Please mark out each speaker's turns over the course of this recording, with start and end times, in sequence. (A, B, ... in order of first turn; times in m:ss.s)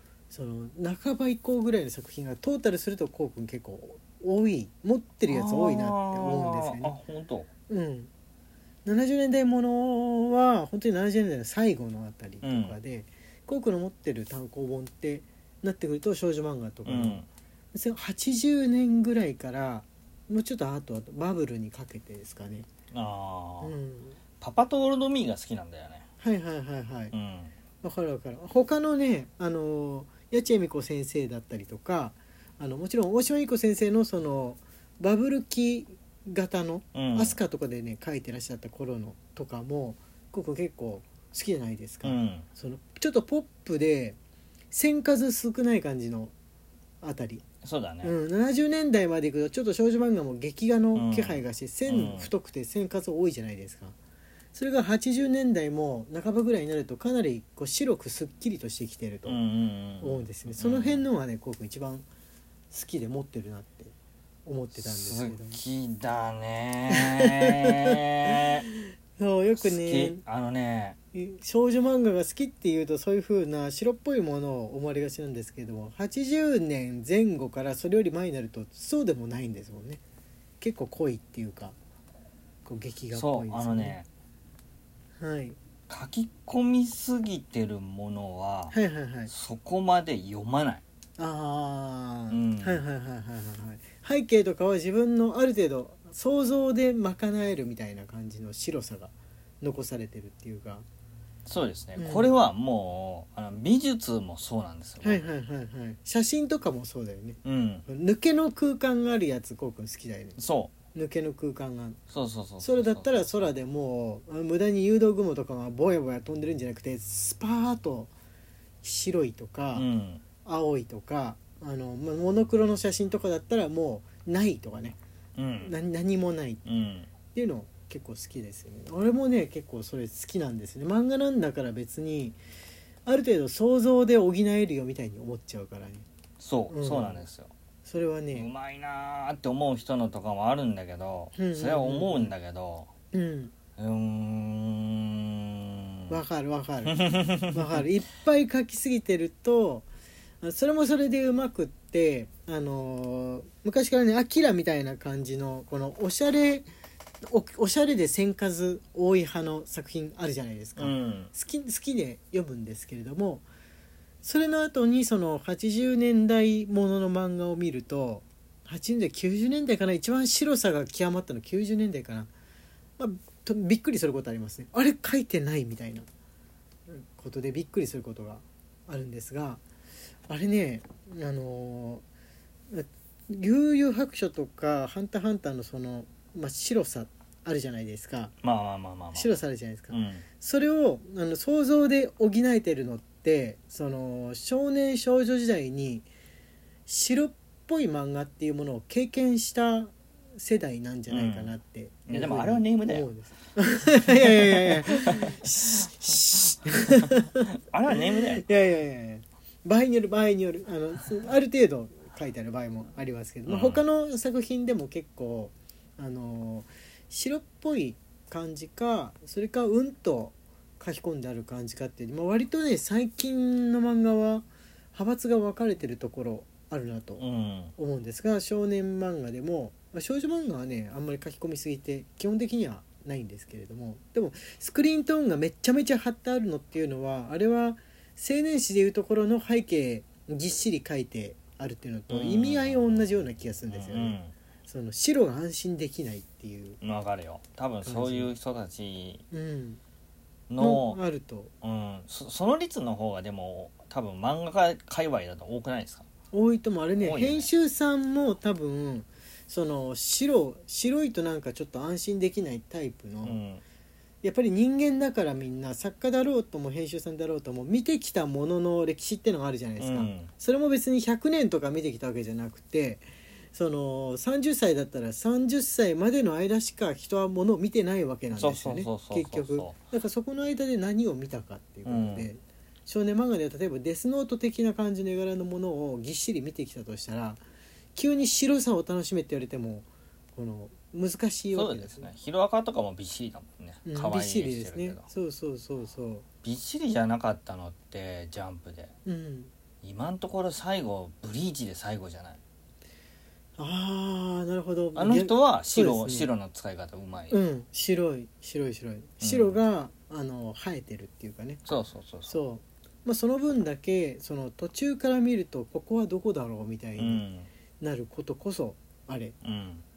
0:00.3-0:07.0 A
0:05.3-0:07.5 B
0:07.7-0:08.1 A
0:08.8-0:17.2 A
0:12.4-0:12.8 B
0:16.8-0:17.2 B
0:17.7-0:22.7 A
0:22.9-0:23.7 B
0:23.6-0:24.2 A
0:24.4-0:26.0 B
0:26.2-0:27.1 A
0:27.1-0:27.5 B
0:27.8-0:44.2 A
0:36.9-0:37.4 B
0:42.0-0:42.4 B
0:44.7-0:46.3 A
0:47.0-0:47.4 A
0:47.6-0:48.1 B
0:48.0-0:54.0 A
0:50.9-0:52.3 B
0:54.5-0:59.4 A
0:59.2-1:01.0 B
1:00.0-1:02.1 A
1:02.7-1:03.9 A
1:04.4-1:05.6 A
1:04.7-1:08.6 B
1:06.9-1:08.0 A
1:08.7-1:10.2 A
1:09.6-1:11.0 B
1:11.1-1:20.0 A
1:20.6-1:21.8 A
1:22.6-1:24.0 A
1:23.1-1:24.1 B
1:25.2-1:25.6 A
1:25.9-1:28.7 B
1:28.7-1:29.3 A
1:29.3-1:30.8 B
1:31.2-1:40.8 A
1:32.3-1:32.8 B
1:41.4-1:45.3 B
1:42.0-1:42.3 A
1:45.0-1:50.4 A
1:47.4-1:47.8 B
1:50.4-1:50.7 B
1:50.9-1:52.0 A
1:52.1-1:53.5 B
1:52.6-1:58.1 A
1:58.8-1:59.9 A
1:59.7-2:00.2 B
2:00.4-2:05.0 A
2:05.4-2:05.8 B
2:05.6-2:06.6 A
2:06.6-2:07.1 B
2:07.3-2:12.4 A
2:13.0-2:16.0 A
2:16.4-2:17.5 B
2:16.7-2:17.2 A
2:17.8-2:18.5 A
2:18.3-2:22.9 B
2:21.4-2:22.3 A
2:23.1-2:23.5 A
2:23.8-2:26.2 B
2:26.1-2:27.0 A
2:26.8-2:27.8 B
2:27.5-2:29.9 A
2:30.4-2:36.7 A
2:37.3-2:43.4 A
2:40.8-2:41.3 B
2:44.2-2:52.3 A
2:53.0-2:56.1 A
2:56.9-2:59.6 A
3:00.3-3:02.0 A
3:02.7-3:08.3 A
3:08.4-3:09.4 B
3:09.1-3:16.1 A
3:09.9-3:10.2 B
3:16.9-3:47.2 A
3:21.1-3:21.5 B
3:22.1-3:23.1 B
3:24.1-3:25.4 B
3:26.9-3:28.4 B
3:33.5-3:33.8 B
3:47.2-3:47.7 B
3:47.8-4:06.8 A
4:02.1-4:03.0 B
4:03.7-4:04.3 B
4:06.8-4:09.2 B
4:07.8-4:08.3 A
4:09.3-4:09.8 A
4:10.5-4:11.0 B
4:10.6-4:11.5 A
4:11.6-4:16.0 B
4:16.3-4:23.4 A
4:17.0-4:17.5 B
4:23.2-4:23.6 B
4:24.2-4:47.4 A
4:29.8-4:30.3 B
4:38.3-4:39.8 B
4:41.8-4:42.3 B
4:47.9-4:52.1 A
4:51.5-4:55.0 B
4:53.8-4:56.2 A
4:56.4-4:58.9 B
4:59.0-4:59.5 A
4:59.8-5:02.4 B
5:03.6-5:06.3 A
5:04.9-5:07.4 B
5:07.3-5:11.6 A
5:09.2-5:09.6 B
5:11.6-5:12.4 B
5:12.3-5:17.2 A
5:17.0-5:17.5 B
5:17.8-5:19.3 A
5:19.4-5:19.8 B